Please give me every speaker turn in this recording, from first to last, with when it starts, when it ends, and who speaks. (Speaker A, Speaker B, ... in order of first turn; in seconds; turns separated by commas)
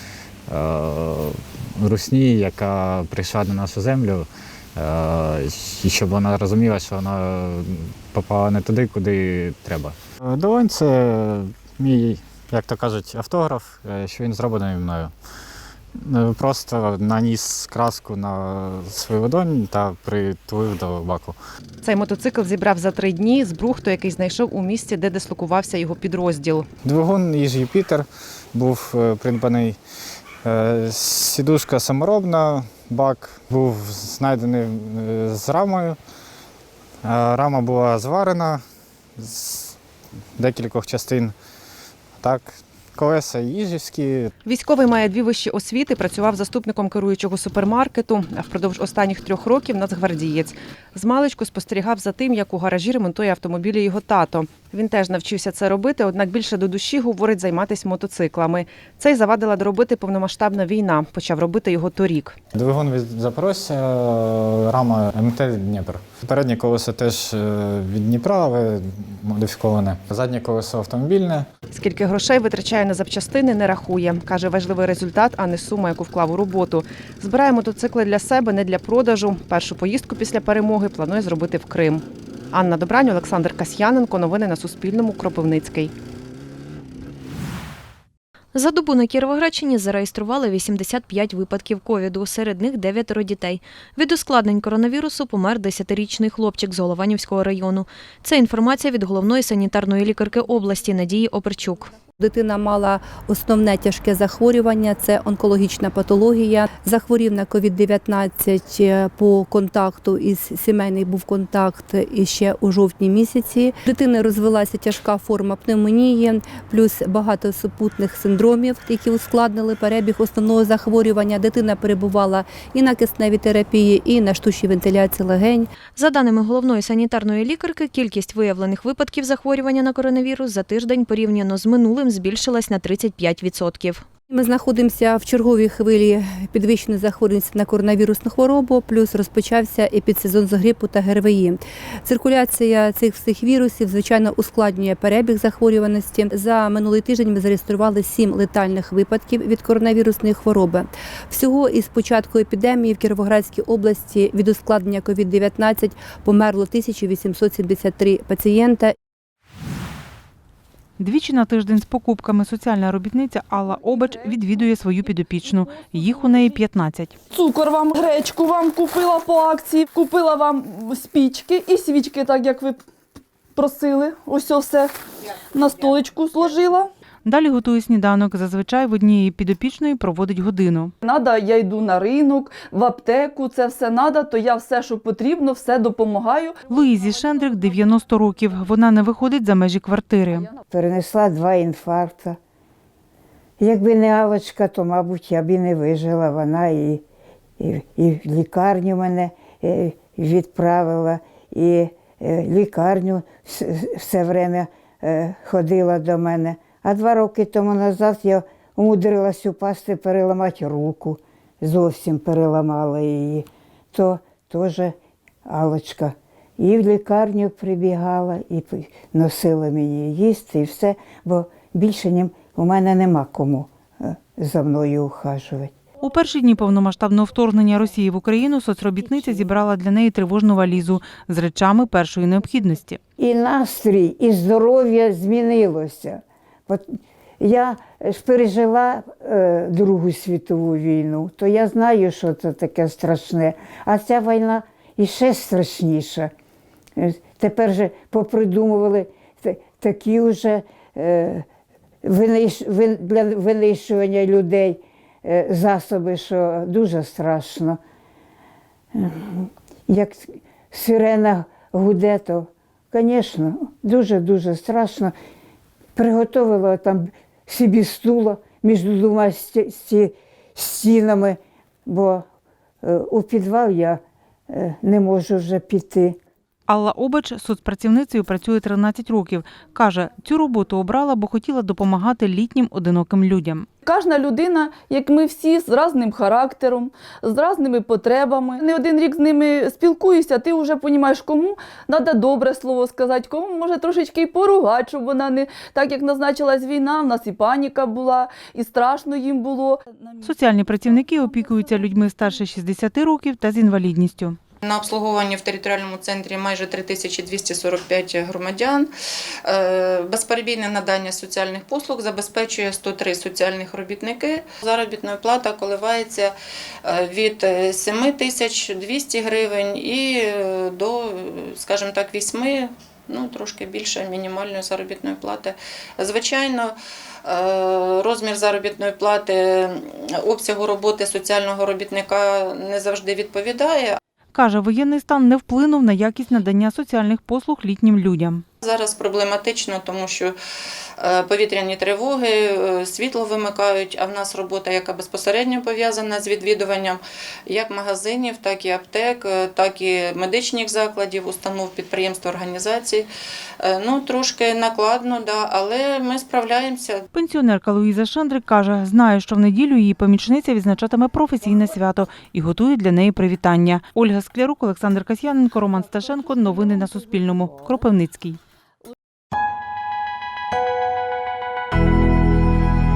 Speaker A: 0.5-15.1, Speaker A: 16.0-21.4, Speaker B: 21.8-26.7, Speaker A: 26.8-29.8, Speaker A: 30.4-36.0, Speaker A: 37.0-38.6, Speaker A: 39.2-39.8, Speaker A: 40.4-41.3, Speaker A: 42.2-44.3, Speaker B: 44.4-62.4, Speaker A: 62.5-71.5, Speaker B: 71.7-85.9, Speaker C: 88.5-101.9, Speaker D: 102.2-125.7, Speaker C: 126.0-134.0, Speaker D: 134.3-158.9, Speaker E: 161.0-167.2, Speaker F: 163.9-164.2, Speaker F: 167.3-172.8, Speaker F: 173.6-174.9, Speaker F: 175.5-176.9, Speaker E: 177.2-180.9, Speaker F: 181.0-186.6, Speaker E: 186.7-190.5, Speaker G: 190.7-192.4, Speaker G: 193.6-197.0, Speaker G: 197.6-214.9, Speaker G: 215.5-225.7, Speaker E: 226.0-233.0, Speaker G: 233.2-246.3, Speaker G: 247.0-251.4, Speaker G: 252.0-257.8, Speaker G: 258.9-265.1, Speaker G: 265.9-272.2, Speaker G: 272.8-274.0, Speaker G: 274.5-276.2, Speaker E: 276.7-283.7, Speaker F: 283.8-302.0, Speaker E: 300.2-304.4, Speaker H: 304.6-308.9, Speaker H: 309.5-316.3, Speaker H: 316.9-326.7, Speaker H: 327.2-334.0, Speaker E: 334.3-338.4, Speaker H: 338.6-340.3, Speaker H: 341.0-353.1, Speaker H: 353.6-357.0, Speaker E: 357.1-368.4